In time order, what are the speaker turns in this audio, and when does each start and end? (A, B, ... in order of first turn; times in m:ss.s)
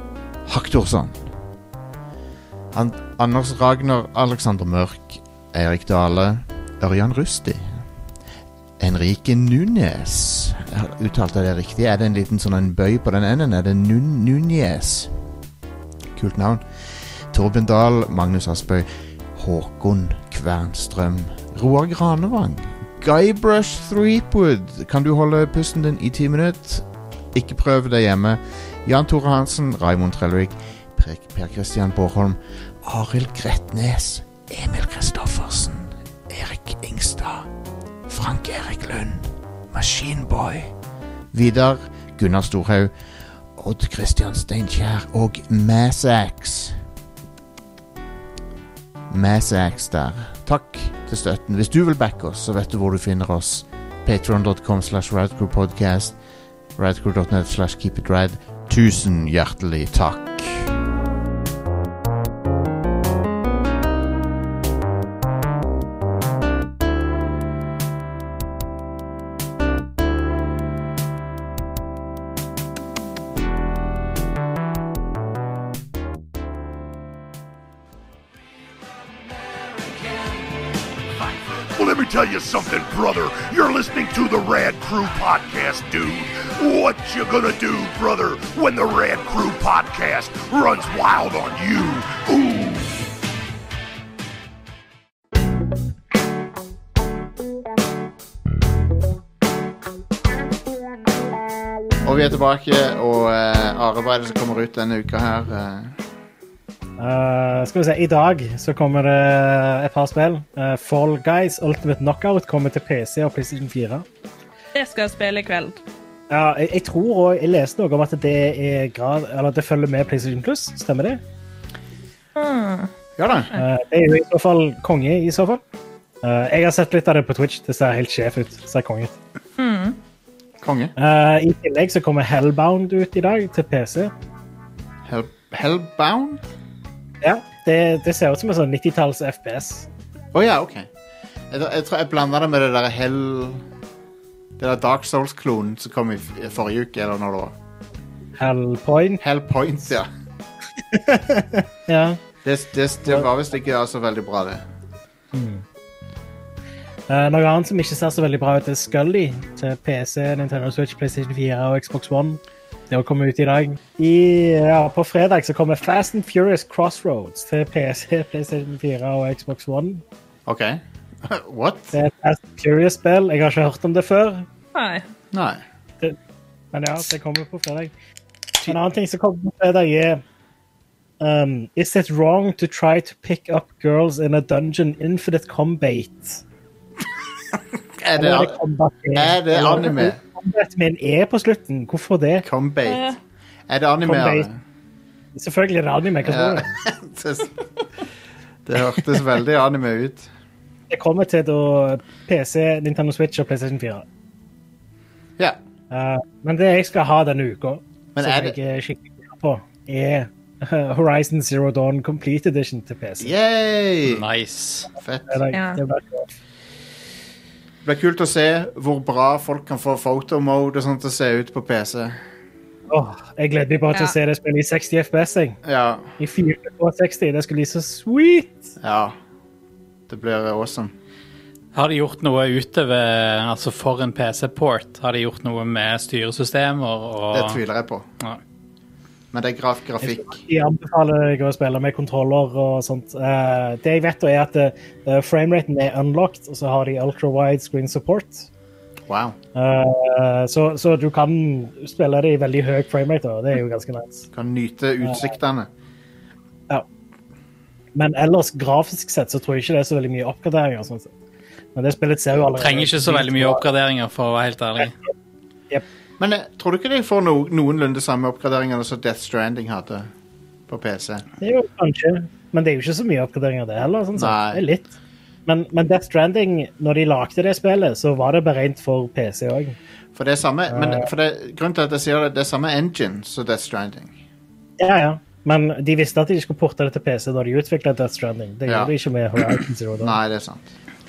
0:00.4-0:01.3 A
0:02.7-0:07.8 A
0:08.8-0:15.1 A
0:16.1-0:16.6 A
0:17.3-0:37.5 A
0:38.1-0:40.7 A
0:41.3-0:42.9 A
0:43.6-0:46.8 A
0:49.1-0:56.2 A
0:56.8-1:00.7 A
1:21.7-1:32.9 B
1:42.0-1:46.0 A
1:47.0-1:54.0 C
1:54.7-1:55.8 D
1:56.3-2:01.2 C
2:02.4-2:02.9 D
2:03.2-2:03.5 A
2:03.6-2:05.6 C
2:06.2-2:09.1 C
2:09.6-2:10.0 D
2:10.6-2:10.9 A
2:11.0-2:14.1 C
2:15.0-2:16.4 A
2:17.2-2:19.9 C
2:20.3-2:20.9 A
2:21.5-2:23.6 A
2:24.6-2:27.5 A
2:28.4-2:29.2 C
2:29.2-2:30.1 A
2:30.9-2:32.2 C
2:32.4-2:34.6 A
2:35.3-2:35.6 C
2:37.1-2:50.0 C
2:50.4-2:51.9 A
2:51.9-2:54.4 C
2:54.7-2:55.0 D
2:55.3-2:55.6 A
2:56.7-2:57.9 C
2:58.6-3:00.2 C
3:01.2-3:06.4 C
3:08.0-3:08.6 A
3:08.1-3:12.4 C
3:09.1-3:10.2 A
3:12.4-3:13.1 A
3:12.8-3:13.2 D
3:13.7-3:14.6 A
3:14.0-3:14.5 C
3:15.3-3:16.7 C
3:16.2-3:17.5 A
3:18.6-3:20.3 A
3:20.9-3:24.0 C
3:25.9-3:33.3 C
3:28.1-3:28.6 A
3:33.2-3:34.2 A
3:34.0-3:34.9 E
3:35.0-3:35.4 A
3:35.3-3:36.3 C
3:35.5-3:35.8 D
3:37.8-3:42.2 A
3:42.9-3:45.6 C
3:45.6-3:46.1 A
3:46.2-3:48.7 C
3:48.8-3:49.2 A
3:50.1-3:50.9 A
3:51.7-3:57.6 E
3:57.3-3:58.0 A
3:59.3-4:00.4 A
4:00.0-4:08.5 C
4:09.1-4:09.4 A
4:09.5-4:14.3 C
4:14.3-4:15.7 A
4:15.0-4:15.3 C
4:17.9-4:21.1 C
4:21.7-4:23.6 C
4:22.6-4:24.9 E
4:26.2-4:30.1 A
4:30.7-4:31.2 A
4:31.4-4:34.9 C
4:34.2-4:34.6 A
4:35.5-4:39.8 C
4:40.1-4:44.1 A
4:40.7-4:41.1 C
4:44.8-4:50.2 C
4:48.6-4:48.9 A
4:50.0-4:50.7 A